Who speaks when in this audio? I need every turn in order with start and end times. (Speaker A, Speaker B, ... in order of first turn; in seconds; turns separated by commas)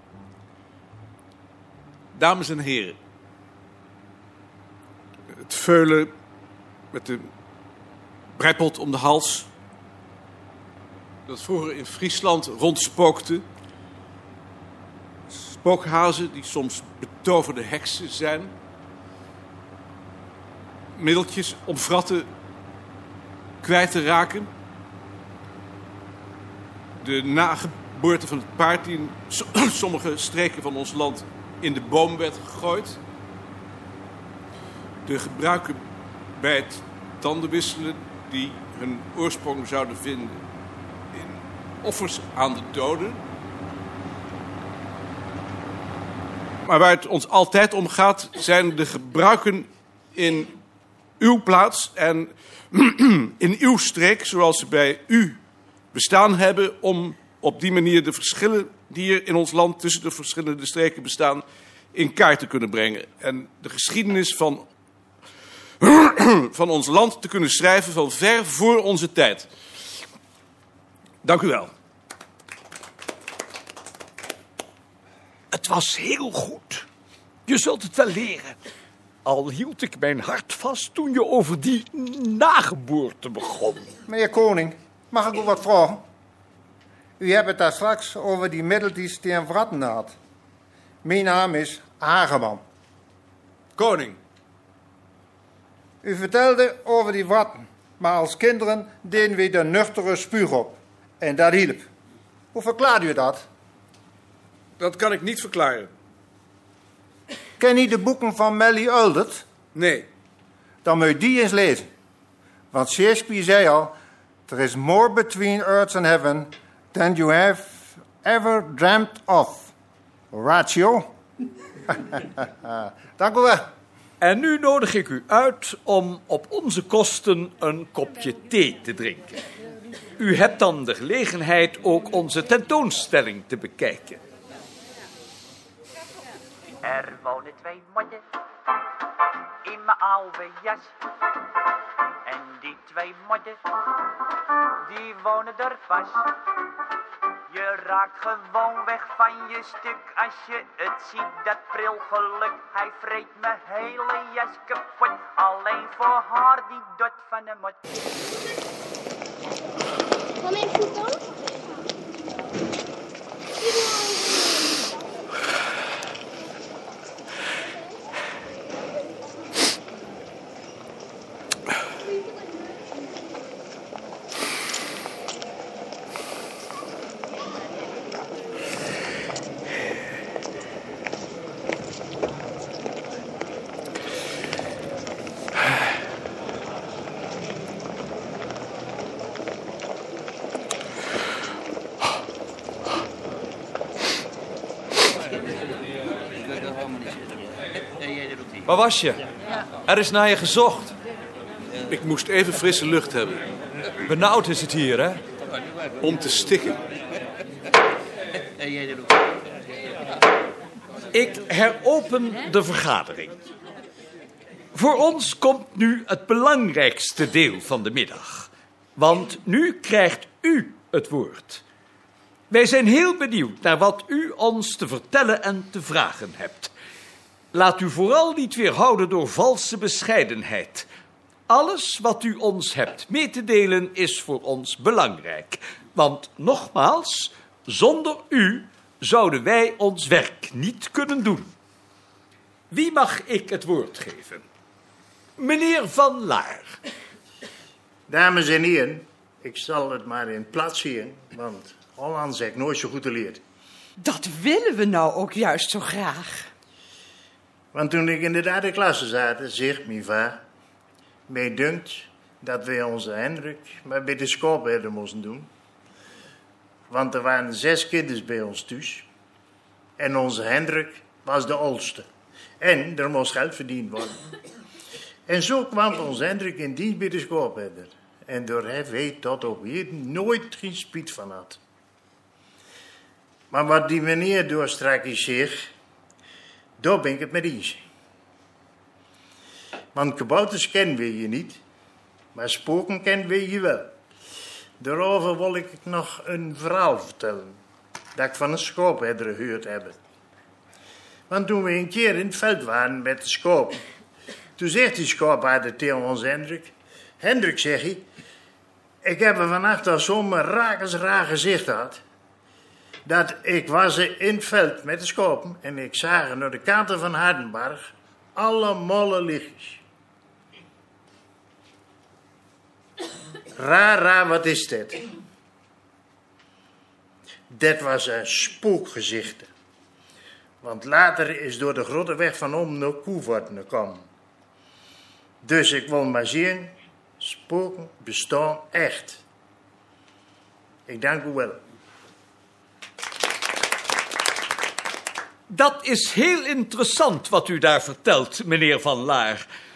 Speaker A: 2.1-3.0, Speaker A: 5.5-6.1, Speaker A: 6.9-7.2, Speaker A: 8.4-9.5, Speaker A: 11.3-13.4, Speaker A: 15.3-18.5, Speaker A: 20.9-22.3, Speaker A: 23.6-24.5, Speaker A: 27.0-33.0, Speaker A: 35.0-35.8, Speaker A: 36.4-40.4, Speaker A: 41.1-43.2, Speaker A: 46.6-50.5, Speaker A: 51.2-55.4, Speaker A: 55.9-64.7, Speaker A: 65.8-69.5, Speaker A: 71.2-71.7, Speaker B: 75.5-76.8, Speaker B: 77.5-78.6, Speaker B: 79.2-83.9, Speaker C: 84.0-86.0, Speaker C: 87.2-90.1, Speaker C: 91.0-92.6, Speaker A: 93.8-94.2, Speaker C: 96.0-101.9, Speaker C: 102.5-103.5, Speaker A: 104.8-105.9, Speaker C: 107.6-109.5, Speaker A: 109.7-110.1, Speaker C: 110.8-111.9, Speaker C: 112.7-113.9, Speaker C: 114.5-119.7, Speaker C: 120.3-121.0, Speaker C: 121.9-123.7, Speaker B: 124.2-129.4, Speaker B: 130.2-134.2, Speaker D: 136.8-138.2, Speaker D: 139.6-140.9, Speaker D: 142.2-143.6, Speaker D: 144.8-146.3, Speaker D: 147.5-157.8, Speaker B: 198.7-199.2, Speaker B: 199.9-200.7, Speaker A: 201.9-203.5, Speaker B: 204.1-205.2, Speaker A: 206.0-206.8, Speaker B: 211.1-213.3, Speaker B: 214.7-221.6, Speaker B: 222.5-226.7, Speaker B: 227.5-230.9, Speaker B: 231.5-241.5, Speaker B: 242.7-244.4, Speaker B: 245.4-246.7, Speaker E: 248.1-253.4, Speaker F: 254.0-256.5, Speaker E: 257.7-260.4, Speaker E: 261.3-265.5, Speaker E: 266.9-269.1, Speaker E: 270.0-272.1, Speaker E: 272.6-274.2, Speaker E: 275.3-281.6, Speaker E: 283.5-285.7, Speaker E: 286.8-287.8, Speaker E: 289.9-291.6, Speaker E: 292.3-293.9, Speaker E: 294.8-297.6, Speaker E: 298.1-300.0, Speaker E: 301.3-303.8, Speaker E: 304.6-308.0, Speaker E: 309.0-312.0, Speaker E: 313.1-319.8, Speaker E: 323.6-325.0, Speaker E: 327.5-329.5, Speaker E: 330.6-334.1, Speaker E: 335.4-339.2, Speaker E: 340.9-341.6, Speaker B: 345.5-349.4